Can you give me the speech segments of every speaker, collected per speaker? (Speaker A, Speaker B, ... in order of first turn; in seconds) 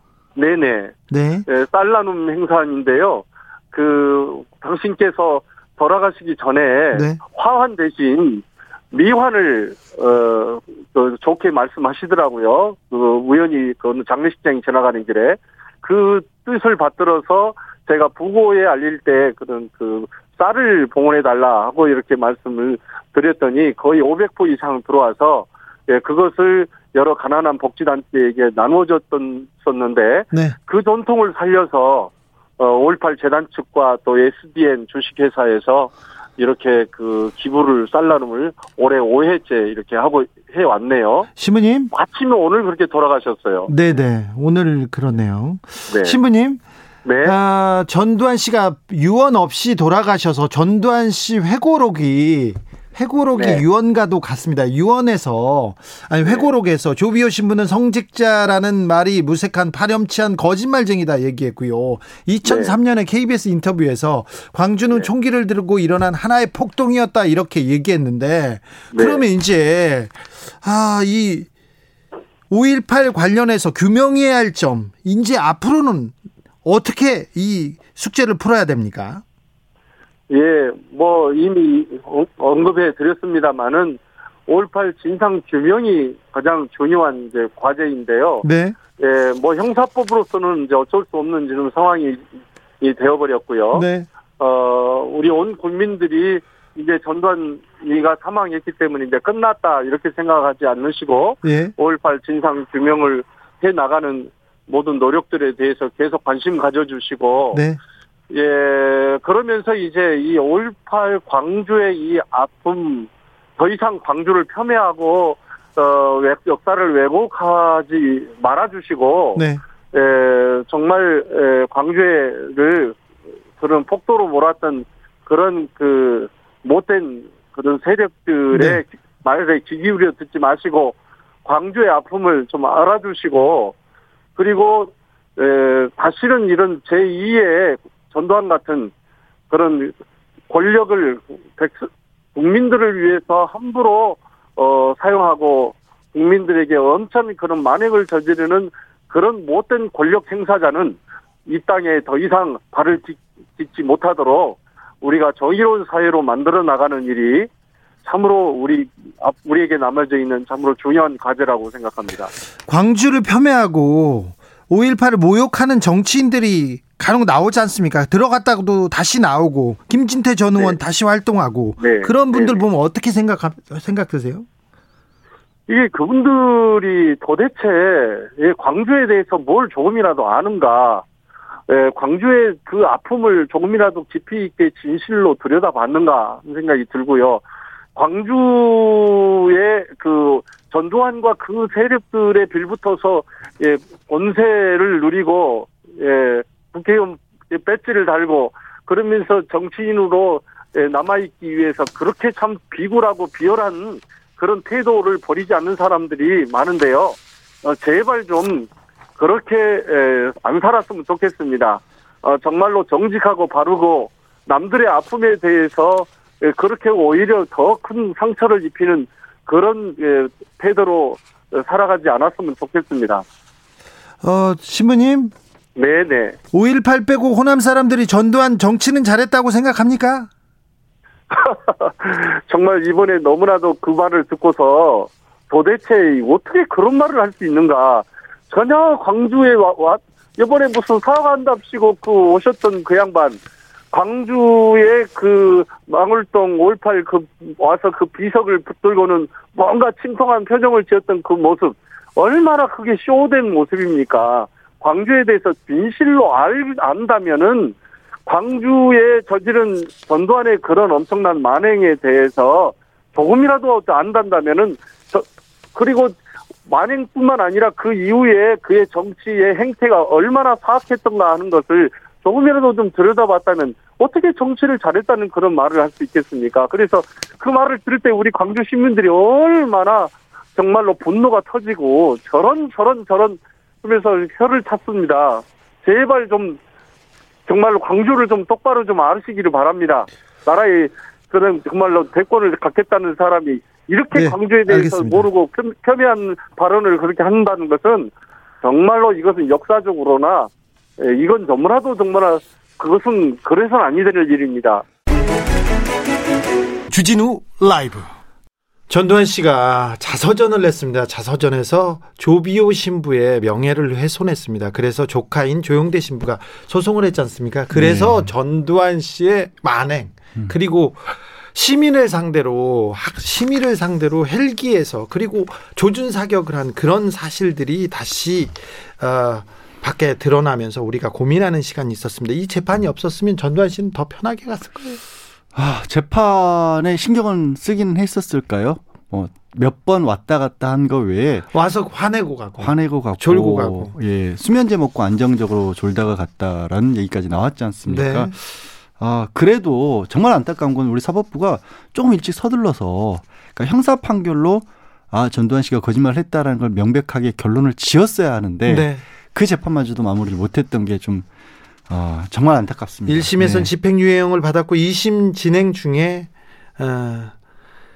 Speaker A: 0.3-0.9, 1.5-41.3, 41.9-43.7, 45.9-46.2, 47.0-47.3, 53.4-53.6, 62.4-62.7, 68.9-69.2, 80.3-88.5, 89.0-92.2, 92.8-93.8, 94.4-107.6, 108.3-123.0, 123.6-133.7, 134.4-138.9, 139.5-139.9, 140.5-157.5, 158.0-162.3, 171.8-172.6, 175.7-181.0, 181.7-187.4, 187.9-223.2, 225.8-226.4, 231.3-243.4, 243.9-257.7, 258.3-266.1, 266.7-286.6, 287.5-298.1, 298.6-304.8
Speaker B: 1.1-1.4, 6.9-7.2, 41.4-41.9, 43.7-46.6, 47.2-71.5, 72.5-79.2, 88.4-88.8, 93.7-94.1, 101.4-101.7, 107.5-107.8, 119.3-119.6, 128.5-128.8, 162.7-174.4, 224.2-225.3, 226.5-230.3, 294.1-295.3, 306.9-308.1, 308.9-335.0, 341.5-343.9, 347.9-348.3, 358.7-359.0, 363.1-367.3
Speaker C: 317.7-318.3, 335.5-341.5, 342.6-348.4, 349.0-361.2, 361.9-363.7